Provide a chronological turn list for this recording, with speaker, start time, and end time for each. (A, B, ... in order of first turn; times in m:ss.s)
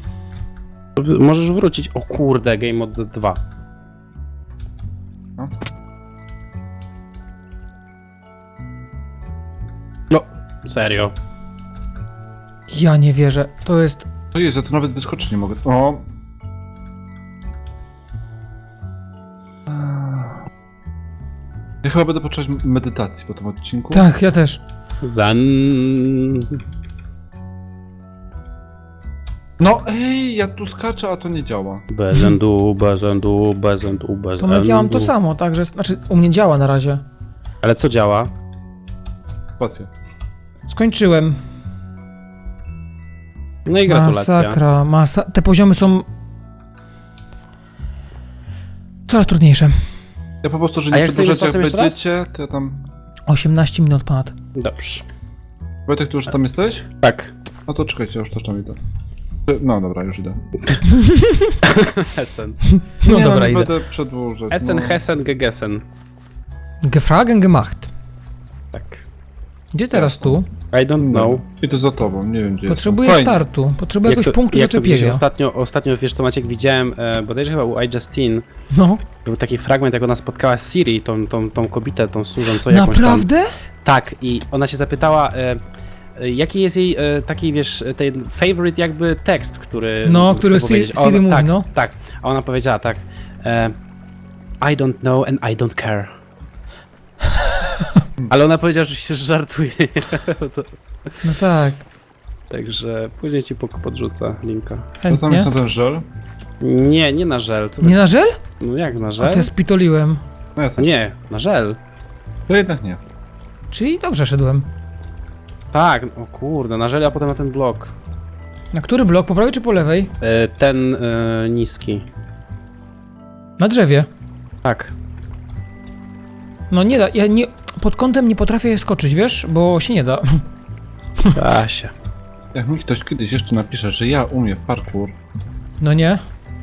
0:01.0-0:03.4 A
0:10.1-0:11.1 A
0:12.7-0:14.1 B
0:14.3-0:16.0 C
0:19.7-0:20.5 C
0:21.8-0:24.0 C
0:23.9-0:24.6 B
0:25.0-0:26.6 A
0:29.6-0:31.8 C
0:31.9-0:35.1 A
0:34.4-0:37.0 B
0:37.6-0:38.3 A
0:39.6-0:39.9 C
0:40.7-0:41.4 B
0:43.6-0:44.6 A
0:43.9-0:46.1 B
0:49.1-0:49.8 B
0:50.4-0:52.8 C
0:50.9-0:52.0 A
0:53.3-0:54.3 B
0:54.6-0:55.0 A
0:55.9-0:56.9 C
0:57.0-0:57.3 A
0:57.7-0:58.8 C
0:59.4-1:00.4 C
1:00.8-1:01.6 B
1:01.6-1:02.6 A
1:02.6-1:03.7 B
1:03.0-1:05.0 C
1:04.5-1:05.8 A
1:06.8-1:07.9 B
1:08.7-1:09.0 A
1:09.7-1:10.5 B
1:09.9-1:10.4 C
1:10.7-1:11.4 A
1:11.0-1:13.4 C
1:12.7-1:15.2 B
1:14.0-1:18.4 A
1:18.7-1:19.0 B
1:19.2-1:23.3 A
1:22.6-1:23.5 B
1:23.8-1:25.6 A
1:26.2-1:33.7 A
1:30.0-1:31.7 B
1:34.6-1:36.1 A
1:37.3-1:38.0 B
1:38.3-1:41.2 A
1:41.2-1:41.8 B
1:42.5-1:44.9 A
1:45.0-1:45.5 B
1:45.1-1:46.0 C
1:46.6-1:48.0 A
1:47.8-1:48.4 B
1:48.6-1:49.5 A
1:49.2-1:50.2 B
1:50.6-1:50.9 C
1:50.8-1:51.8 A
1:52.5-1:53.0 C
1:53.7-1:54.7 B
1:55.7-1:57.9 A
1:58.7-2:00.1 B
2:00.2-2:02.0 A
2:03.6-2:04.1 B
2:04.6-2:04.9 A
2:06.7-2:10.4 B
2:11.3-2:11.9 A
2:12.5-2:15.2 C
2:15.8-2:16.2 B